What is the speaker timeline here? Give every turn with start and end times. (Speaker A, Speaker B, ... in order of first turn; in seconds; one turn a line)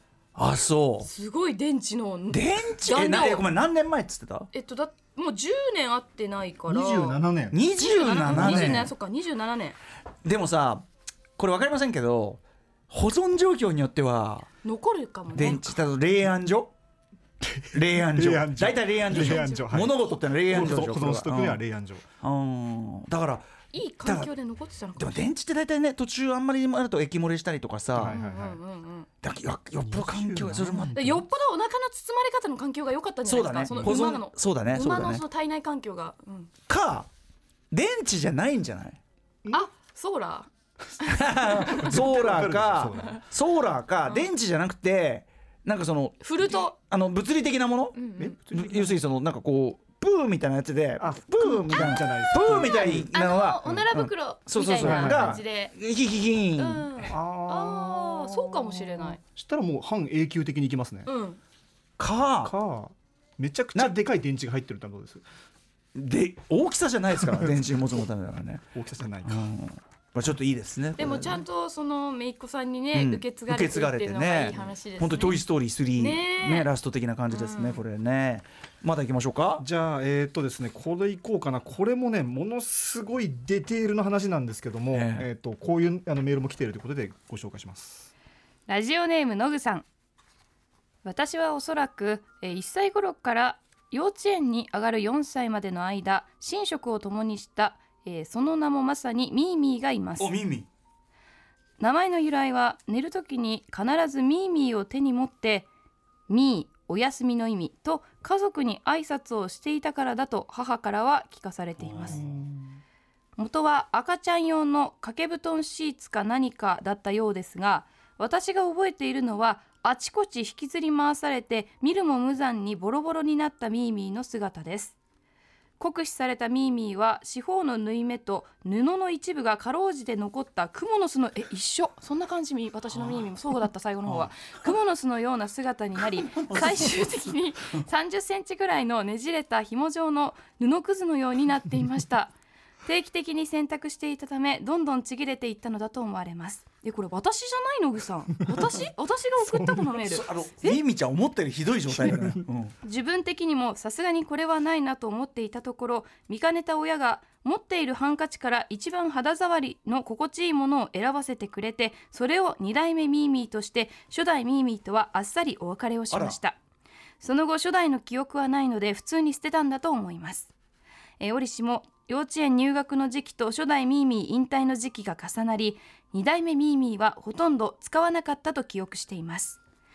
Speaker A: 0.3-1.1
Speaker B: 1.0-3.5
Speaker A: 2.3-4.5
Speaker B: 4.5-7.2
Speaker C: 6.7-7.6
Speaker A: 7.5-8.9
Speaker B: 7.8-9.8
Speaker C: 8.3-8.8
Speaker A: 10.2-10.8
Speaker A: 11.4-14.5
Speaker B: 14.6-15.8
Speaker A: 15.3-16.7
Speaker C: 17.6-22.1
Speaker A: 17.7-21.6
Speaker B: 19.1-19.7
Speaker A: 22.2-23.5
Speaker B: 23.7-25.2
Speaker A: 24.0-24.3
Speaker A: 25.0-28.2
Speaker C: 28.0-28.6
Speaker B: 28.1-29.1
Speaker A: 29.2-31.1
Speaker C: 29.9-31.2
Speaker B: 30.9-36.5
Speaker A: 33.2-35.2
Speaker A: 36.7-37.1
Speaker A: 37.7-39.0
Speaker B: 39.5-42.0
Speaker A: 41.1-56.9
Speaker C: 41.6-43.2
Speaker B: 46.2-46.8
Speaker B: 48.0-48.4
Speaker C: 48.2-49.0
Speaker C: 51.0-53.1
Speaker B: 51.4-55.7
Speaker C: 54.8-55.4
Speaker B: 56.6-59.2
Speaker C: 57.1-61.1
Speaker B: 61.1-61.4
Speaker A: 62.0-62.5
Speaker C: 62.4-65.2
Speaker A: 66.0-68.7
Speaker C: 68.7-69.5
Speaker A: 69.2-71.4
Speaker B: 71.0-75.4
Speaker A: 72.9-79.7
Speaker B: 76.0-76.7
Speaker B: 77.3-77.8
Speaker C: 79.6-88.1
Speaker A: 84.9-85.3
Speaker B: 88.7-89.9
Speaker B: 91.0-100.3
Speaker A: 100.2-100.7
Speaker B: 101.8-105.7
Speaker B: 106.3-112.2
Speaker A: 111.8-112.2
Speaker C: 112.1-112.6
Speaker B: 113.4-125.0
Speaker B: 125.8-142.3
Speaker A: 134.1-134.3
Speaker A: 136.2-137.1
Speaker B: 142.8-150.8
Speaker A: 150.0-152.8
Speaker B: 152.8-166.6
Speaker A: 166.1-166.4
Speaker B: 167.2-170.5
Speaker B: 171.2-179.6